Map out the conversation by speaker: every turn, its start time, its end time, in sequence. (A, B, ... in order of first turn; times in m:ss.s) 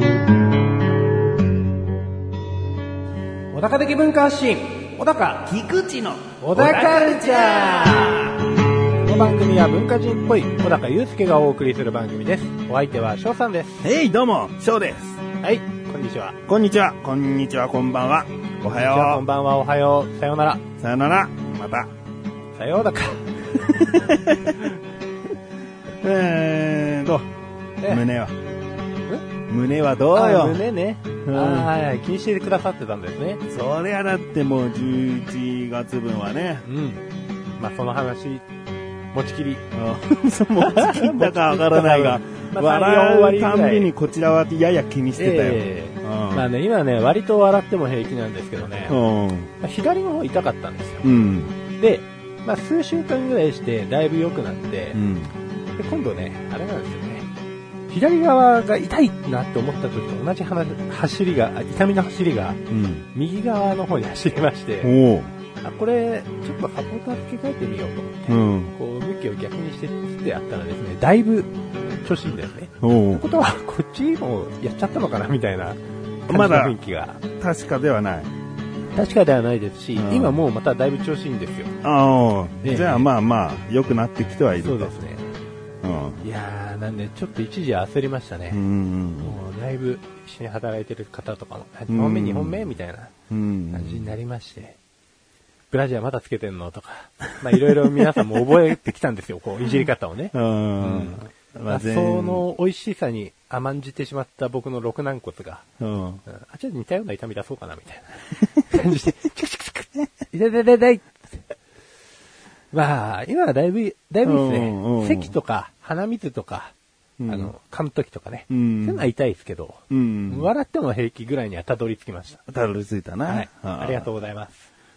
0:03.5-0:05.5 A
0:05.4-0:08.3 B
0:06.4-0:08.3 A
0:09.0-0:13.8 A
0:13.8-0:15.2 B
0:15.4-0:16.4 A
0:16.5-0:19.2 B
0:18.7-0:20.6 A
0:20.8-0:21.9 B
0:22.6-0:23.9 A
0:23.6-0:24.7 B
0:26.0-0:27.3 B
0:27.8-0:28.0 A
0:27.8-0:28.3 B
0:29.5-0:30.6 B
0:30.1-0:33.4 A
0:31.2-0:31.7 B
0:33.5-0:36.7 B
0:36.6-0:37.0 A
0:37.6-0:38.4 A
0:39.1-0:39.6 A
0:39.7-0:46.5 B
0:40.6-0:43.9 A
0:45.2-0:49.0 A
0:48.9-0:49.5 B
0:49.6-0:51.1 A
0:51.0-0:51.5 B
0:51.8-0:55.0 A
0:54.9-0:55.3 B
0:55.8-0:57.3 A
0:57.9-1:02.6 A
1:02.7-1:03.0 B
1:03.1-1:04.9 A
1:04.8-1:05.3 B
1:05.6-1:11.5 A
1:08.3-1:08.7 B
1:12.0-1:17.2 A
1:12.8-1:13.2 B
1:16.3-1:16.8 B
1:17.3-1:18.3 B
1:18.9-1:21.7 A
1:20.0-1:20.4 B
1:21.8-1:24.9 B
1:22.6-1:23.1 A
1:24.6-1:25.3 A
1:25.8-1:26.2 B
1:26.2-1:28.6 A
1:28.5-1:29.4 B
1:29.2-1:33.1 A
1:31.9-1:32.7 B
1:33.3-1:34.1 B
1:33.7-1:34.8 A
1:35.7-1:45.6 A
1:40.3-1:42.4 B
1:45.8-1:46.2 B
1:46.3-1:51.4 A
1:52.7-1:56.7 A
1:54.2-1:55.3 B
1:57.2-1:57.5 B
1:57.3-2:02.4 A
1:58.5-1:59.0 B
1:59.9-2:00.5 B
2:02.5-2:04.1 B
2:03.3-2:04.7 A